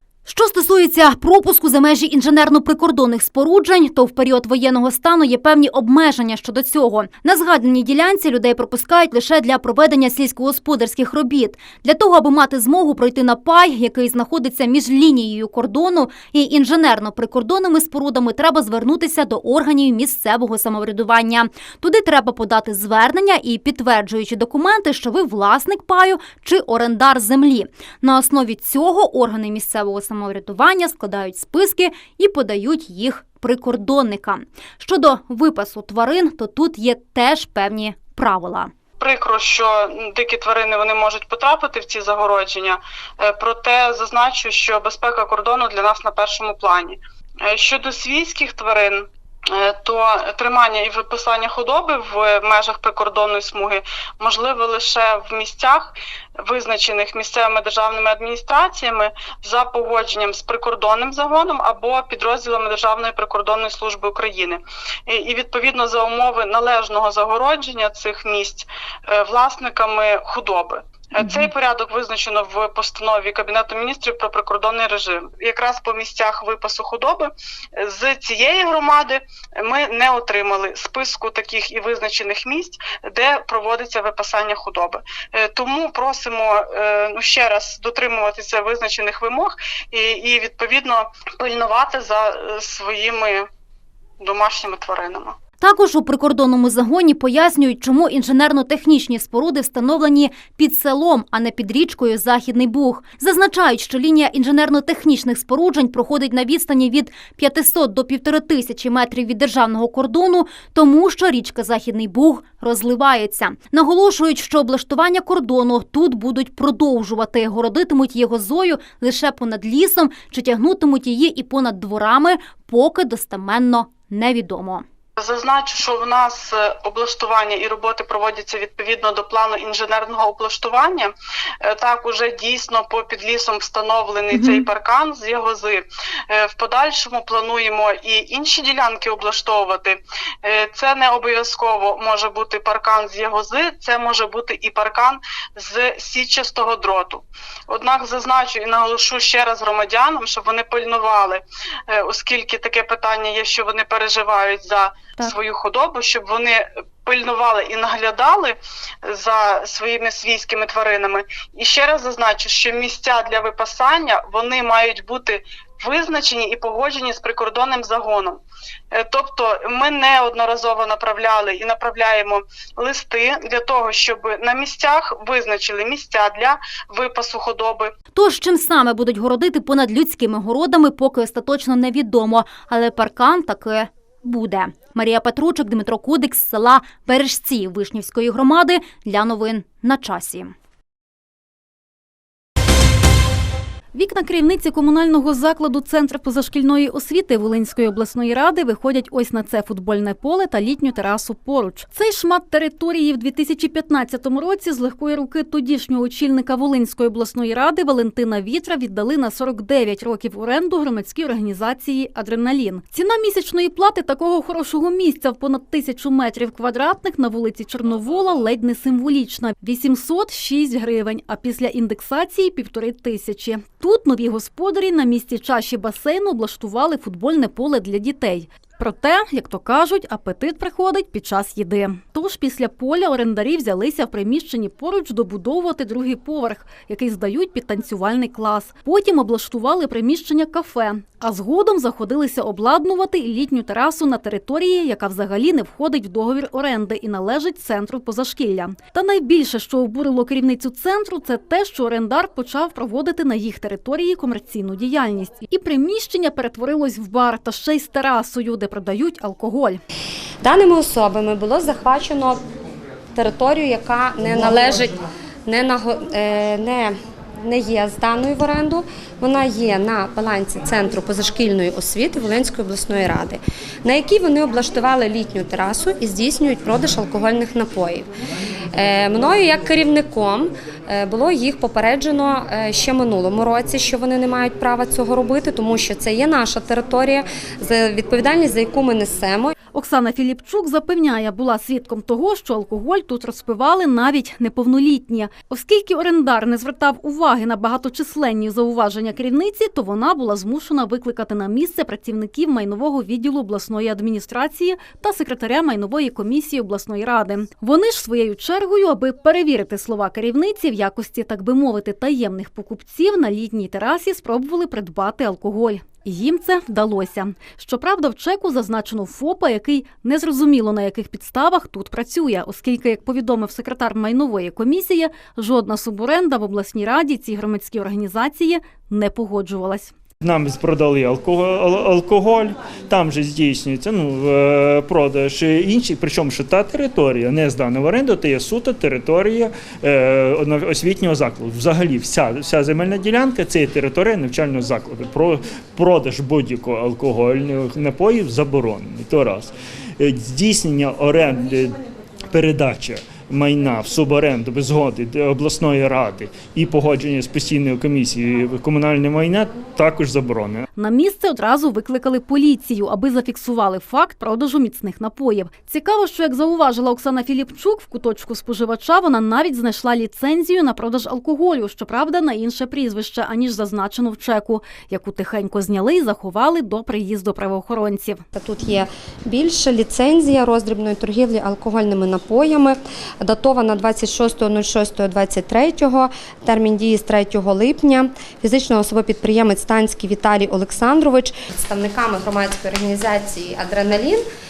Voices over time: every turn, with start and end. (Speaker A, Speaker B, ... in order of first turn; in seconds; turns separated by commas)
Speaker A: 0.3-38.7, Speaker B: 39.0-93.5, Speaker A: 71.2-71.5, Speaker B: 94.2-95.3, Speaker A: 95.6-124.8, Speaker B: 125.2-168.4, Speaker A: 134.3-134.7, Speaker B: 168.9-177.9, Speaker A: 178.1-190.5, Speaker C: 193.9-259.8, Speaker D: 260.4-262.4, Speaker D: 263.2-278.1, Speaker D: 278.8-289.5, Speaker C: 289.7-329.9, Speaker E: 330.2-351.8, Speaker E: 352.3-360.7, Speaker C: 360.8-378.2, Speaker D: 378.3-394.2